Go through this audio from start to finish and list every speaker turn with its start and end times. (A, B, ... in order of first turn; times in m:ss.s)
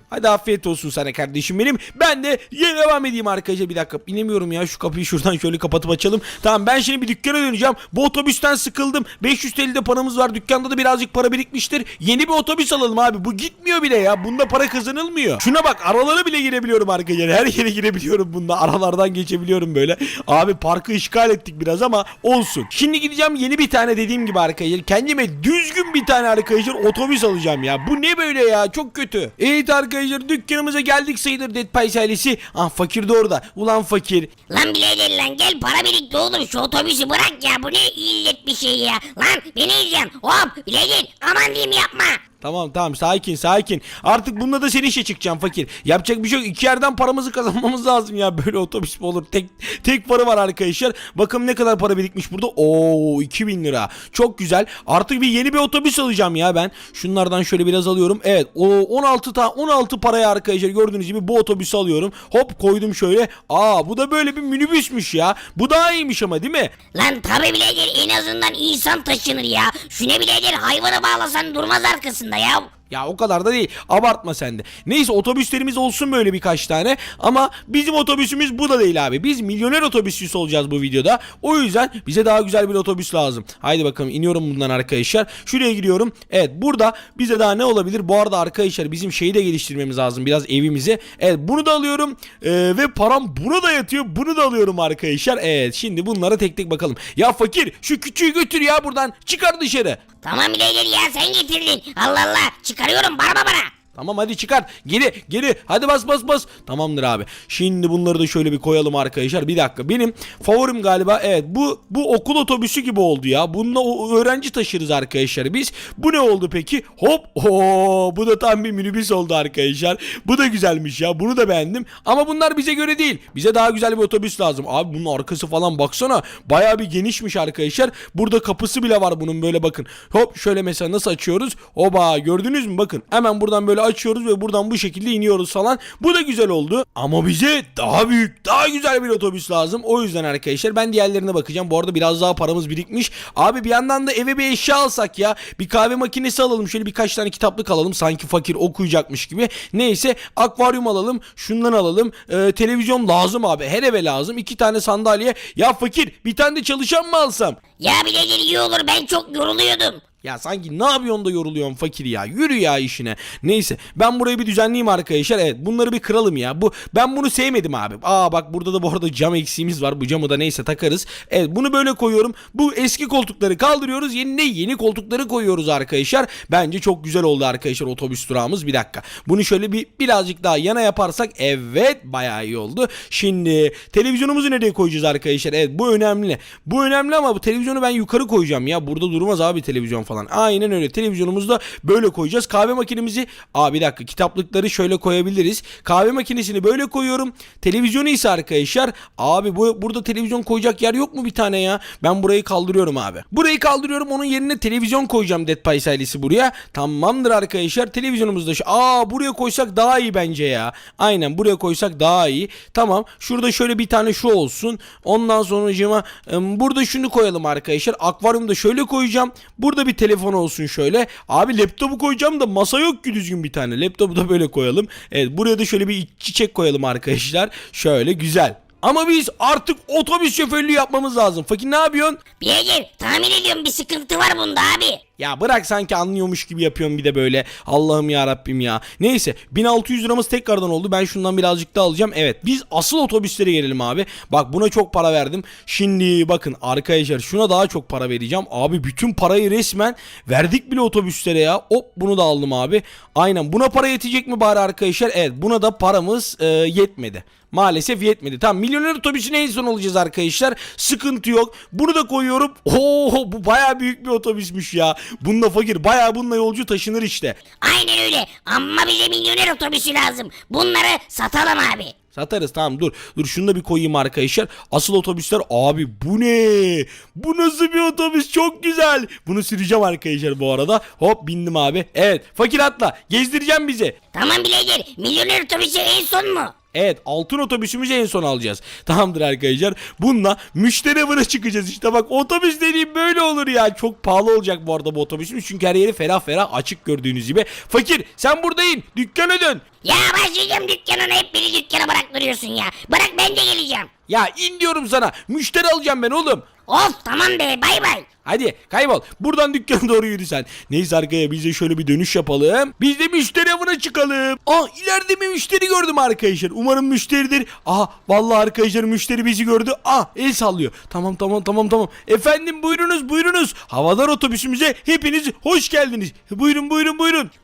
0:00.1-0:34.3 A
0:34.5-0:42.2 B
0:42.4-1:06.7 A
1:06.9-1:12.7 B
1:12.9-1:40.0 A
1:40.2-1:43.7 B
1:44.0-2:37.6 A
2:37.8-2:40.0 B
2:40.2-3:52.2 A
3:52.4-3:55.0 B
3:55.2-4:27.4 A
4:27.6-4:31.9 B
4:32.1-4:44.0 A
4:44.1-4:46.5 B
4:46.7-4:59.6 A
4:59.8-5:03.9 B
5:04.1-5:06.5 A
5:06.7-5:08.1 B
5:08.2-5:27.3 A